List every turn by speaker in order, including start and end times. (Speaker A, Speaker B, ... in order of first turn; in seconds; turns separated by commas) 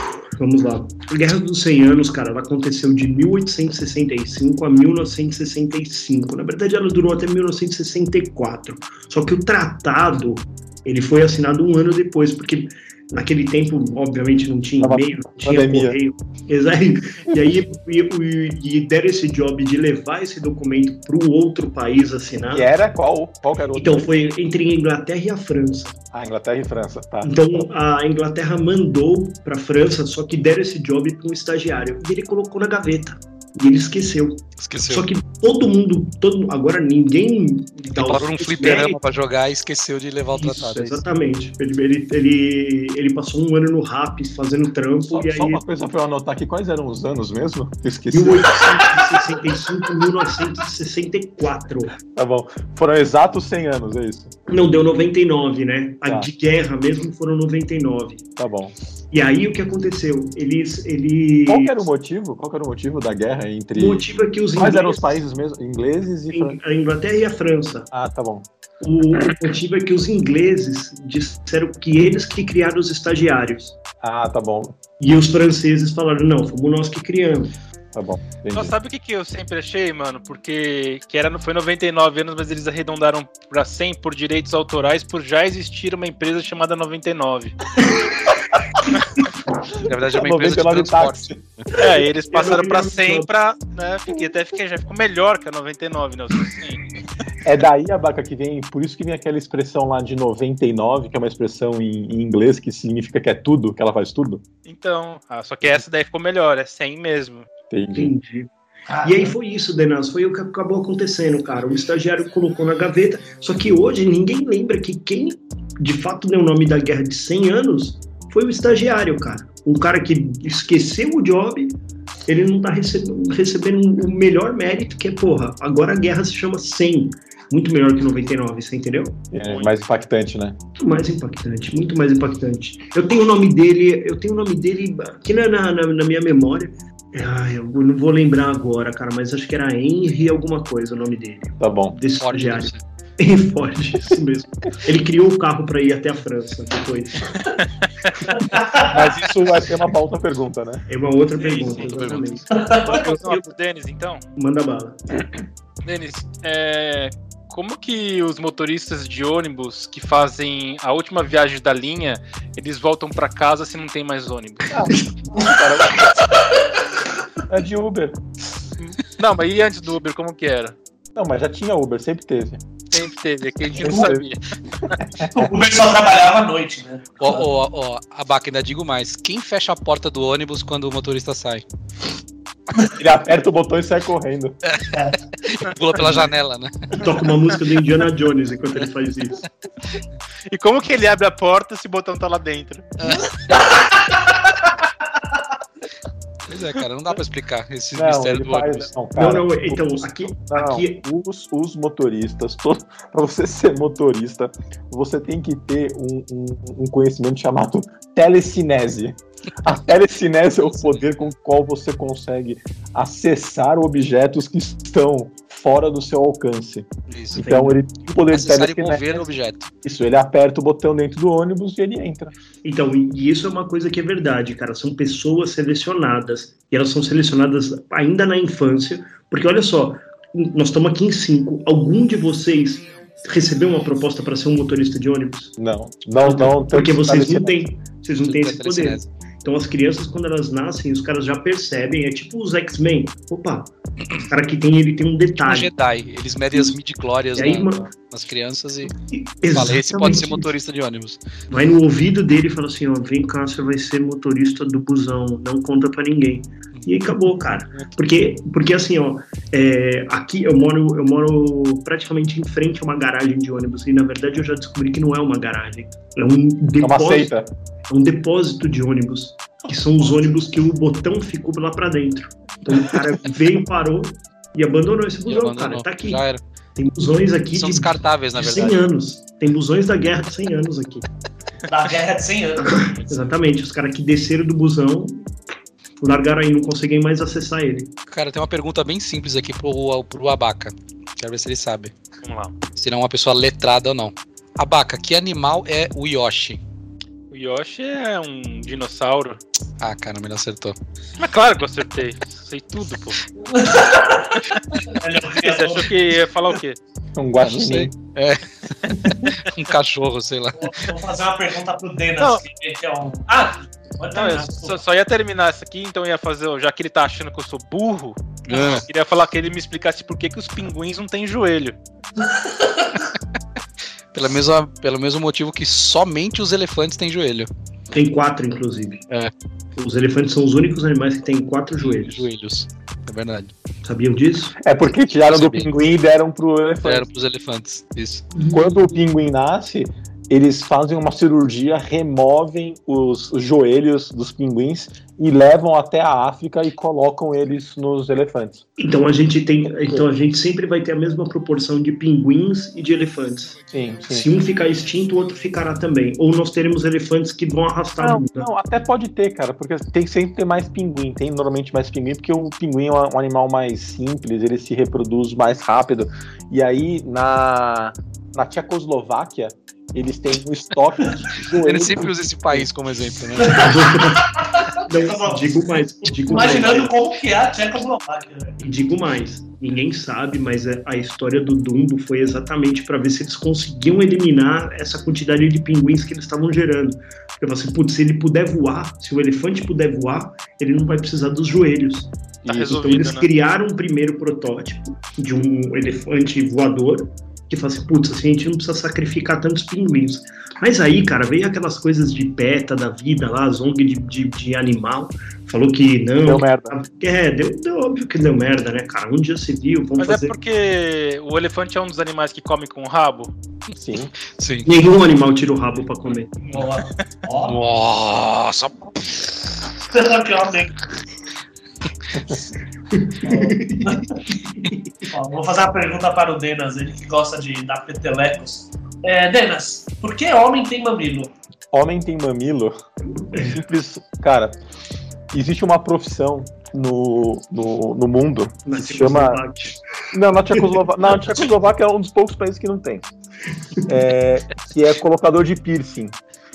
Speaker A: 0.4-22.7, Speaker B: 14.8-16.0, Speaker B: 22.5-24.3, Speaker A: 23.7-26.0, Speaker B: 26.1-27.7, Speaker A: 27.2-39.0, Speaker C: 34.6-35.1, Speaker C: 37.9-41.0, Speaker A: 40.3-45.6, Speaker B: 45.1-49.0, Speaker A: 48.1-51.9, Speaker B: 52.0-54.3, Speaker A: 54.5-58.2, Speaker B: 58.4-58.7, Speaker A: 59.1-61.8, Speaker B: 61.5-66.6, Speaker A: 63.7-65.2, Speaker A: 66.3-67.9, Speaker B: 67.9-68.5, Speaker A: 68.8-73.8, Speaker B: 74.0-74.8, Speaker A: 75.0-77.5, Speaker B: 77.9-78.7, Speaker D: 78.5-87.6, Speaker C: 89.8-91.3, Speaker B: 90.1-91.4, Speaker D: 91.8-96.8, Speaker A: 92.3-93.3, Speaker B: 97.4-104.4, Speaker D: 104.7-107.5, Speaker B: 107.7-108.1, Speaker A: 107.9-108.5, Speaker E: 108.9-109.3, Speaker A: 109.0-129.7, Speaker B: 129.3-130.6, Speaker A: 130.8-147.4, Speaker B: 141.6-142.0, Speaker C: 142.2-142.8, Speaker D: 147.6-148.1, Speaker E: 148.3-149.0, Speaker B: 148.8-150.8, Speaker A: 150.9-153.4, Speaker D: 151.4-151.9, Speaker C: 151.8-152.4, Speaker E: 152.5-153.0, Speaker D: 152.8-154.2, Speaker A: 154.3-155.2, Speaker D: 155.8-164.9, Speaker B: 164.7-166.3, Speaker B: 167.5-168.2, Speaker D: 168.8-170.8, Speaker B: 171.1-172.6, Speaker D: 172.9-175.0, Speaker B: 173.8-174.2, Speaker B: 175.2-175.5, Speaker E: 175.3-177.5, Speaker C: 177.2-181.6, Speaker B: 182.9-184.6, Speaker C: 184.7-187.2, Speaker E: 184.9-185.2, Speaker A: 186.9-189.4, Speaker D: 190.5-192.9, Speaker C: 193.0-193.7, Speaker E: 193.5-194.3, Speaker C: 196.5-198.9, Speaker B: 197.9-219.3, Speaker A: 199.2-201.0, Speaker C: 217.1-217.4, Speaker A: 217.4-217.8, Speaker C: 218.3-219.7, Speaker B: 219.8-222.3, Speaker A: 222.6-235.5, Speaker B: 235.6-237.7, Speaker A: 236.2-245.7, Speaker C: 238.2-239.1, Speaker C: 245.4-248.9, Speaker A: 247.3-247.9, Speaker A: 249.1-250.5, Speaker C: 249.5-251.2, Speaker A: 251.5-267.3, Speaker B: 266.8-267.5, Speaker A: 267.9-276.2, Speaker C: 275.2-276.4, Speaker A: 276.8-281.0, Speaker C: 277.6-278.8, Speaker E: 281.7-282.9, Speaker A: 282.6-285.3, Speaker A: 286.0-287.9, Speaker C: 288.1-291.9, Speaker D: 292.2-292.6, Speaker C: 292.7-296.6, Speaker D: 297.3-299.4, Speaker C: 299.8-300.8, Speaker D: 301.2-303.2, Speaker E: 303.4-305.9, Speaker D: 305.4-306.8, Speaker B: 307.1-307.9, Speaker C: 307.4-310.8, Speaker E: 310.5-314.8, Speaker D: 312.2-312.4, Speaker D: 314.1-321.8, Speaker C: 318.5-318.9, Speaker E: 322.2-322.9, Speaker C: 324.1-327.5, Speaker A: 327.9-329.0, Speaker A: 329.8-332.3, Speaker C: 331.8-333.5, Speaker A: 333.8-334.6, Speaker B: 334.6-337.1, Speaker C: 335.2-335.7, Speaker C: 336.8-338.3, Speaker B: 338.5-348.6, Speaker A: 348.8-358.5, Speaker B: 353.7-354.3, Speaker B: 358.0-372.7, Speaker C: 371.5-373.9, Speaker E: 373.4-378.6, Speaker A: 373.5-376.9, Speaker A: 378.6-392.1, Speaker D: 392.4-393.3, Speaker B: 392.5-392.8, Speaker A: 392.6-410.4, Speaker B: 406.2-406.8, Speaker D: 410.0-413.3, Speaker B: 413.7-414.1, Speaker C: 414.3-414.7, Speaker A: 414.6-416.4, Speaker E: 416.4-417.6, Speaker C: 417.4-419.2, Speaker E: 419.9-420.8, Speaker A: 422.9-424.7, Speaker E: 423.8-424.2, Speaker E: 425.0-431.3, Speaker B: 431.7-432.7, Speaker A: 433.3-433.6, Speaker B: 433.4-434.6, Speaker B: 435.3-439.4, Speaker A: 438.6-439.8, Speaker B: 440.1-443.1, Speaker A: 440.5-440.8, Speaker B: 443.9-446.1